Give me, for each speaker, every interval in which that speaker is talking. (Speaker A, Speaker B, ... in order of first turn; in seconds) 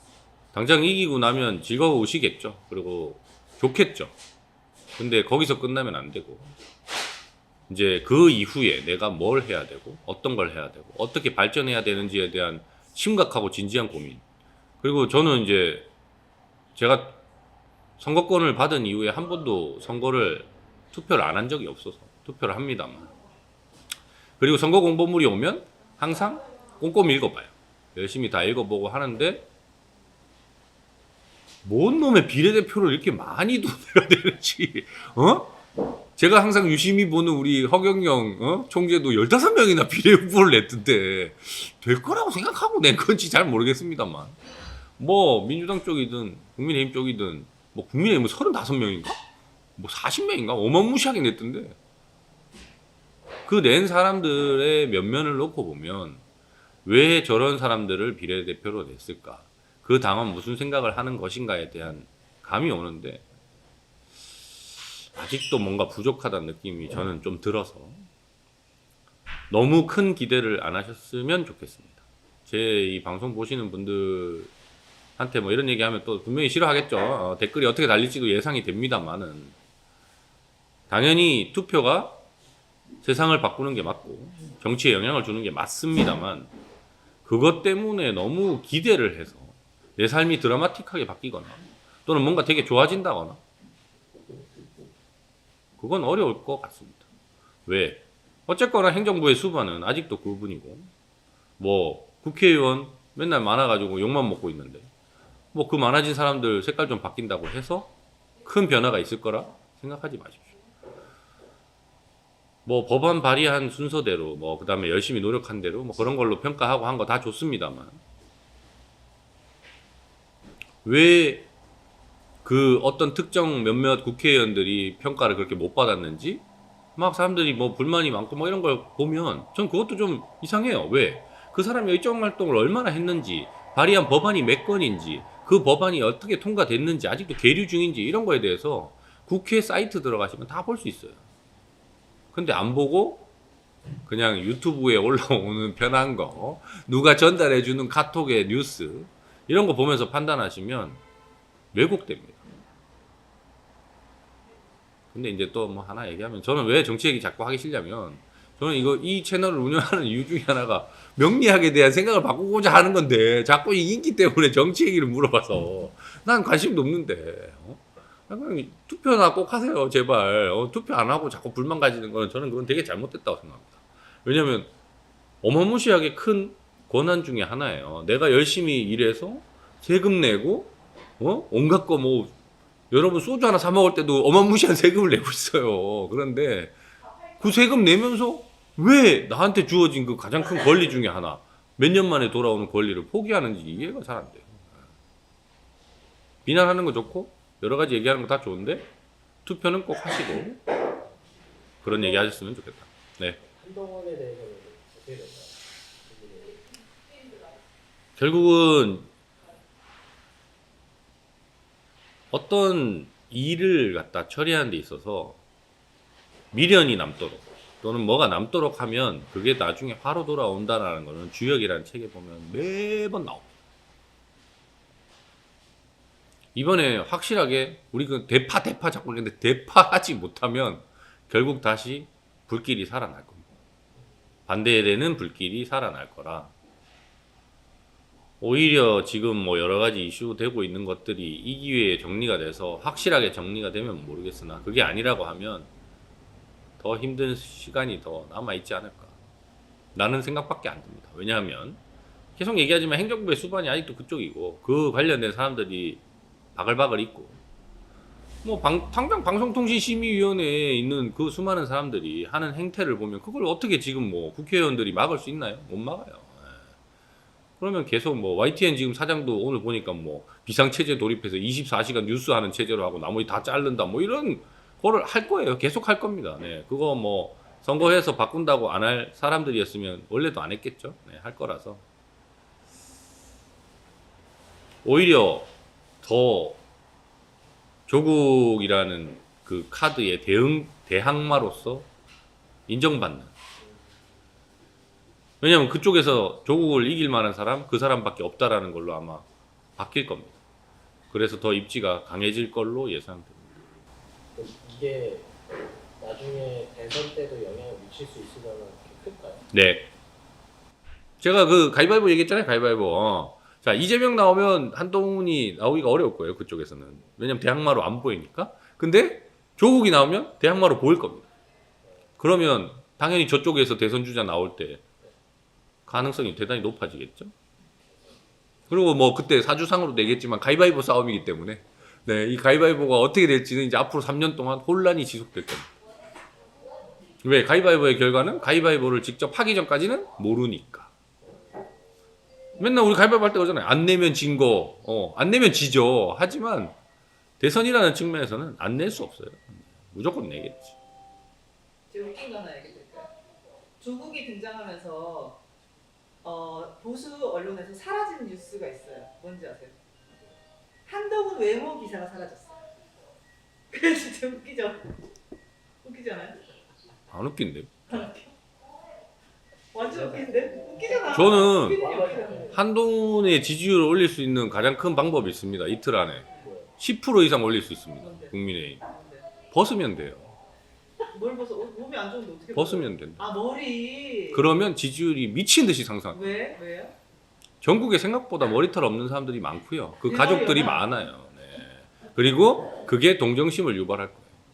Speaker A: 0.5-4.1, 5.0-6.5, 7.7-14.2, 14.8-15.9, 16.8-17.2, 18.0-23.1, 24.4-29.5, 31.6-35.5, 36.2-44.4, 45.0-49.2, 49.8-51.8, 53.5-56.2, 56.9-63.2, 65.1-68.1, 69.5-74.5, 75.2-79.5, 80.9-82.2, 83.0-86.5, 87.2-93.4, 95.8-97.1, 97.7-100.9, 101.6-104.9, 105.5-107.9, 108.4-110.5, 112.7-118.0, 120.8-121.5, 122.4-126.4, 127.0-141.2, 142.3-143.3, 144.1-151.0, 151.7-152.4, 155.1-174.7, 175.4-182.3, 182.9-186.8, 187.4-194.8, 196.5-198.9, 199.4-200.7, 201.8-203.4, 208.2-209.1, 212.3-215.4, 216.5-223.5, 226.6-233.4, 234.5-236.5, 238.4-245.7, 246.8-249.2, 249.9-251.8, 252.4-256.0, 256.6-257.4, 258.4-266.6, 267.6-281.8, 284.8-285.5, 286.0-286.6, 287.9-291.9, 292.7-293.3, 295.4-299.3, 299.8-300.4, 301.1-303.5, 309.5-309.9, 311.2-321.3, 322.2-324.8, 325.9-327.3, 328.7-335.7, 337.2-340.9, 342.6-346.8, 347.4-350.8, 367.1-368.0, 371.1-371.8, 372.5-376.3, 376.8-378.8, 379.5-380.3, 382.5-383.2, 384.3-386.4, 387.6-394.3
Speaker B: 201.9-202.3, 203.4-206.7, 304.4-305.3, 306.0-309.4, 369.8-370.2, 370.8-372.6
Speaker C: 351.9-353.1, 353.8-355.4, 356.2-359.8, 360.9-362.5, 363.7-365.0, 365.8-366.4, 367.9-368.3, 369.7-372.6, 378.0-379.3, 381.1-384.5, 386.1-386.9, 390.1-390.9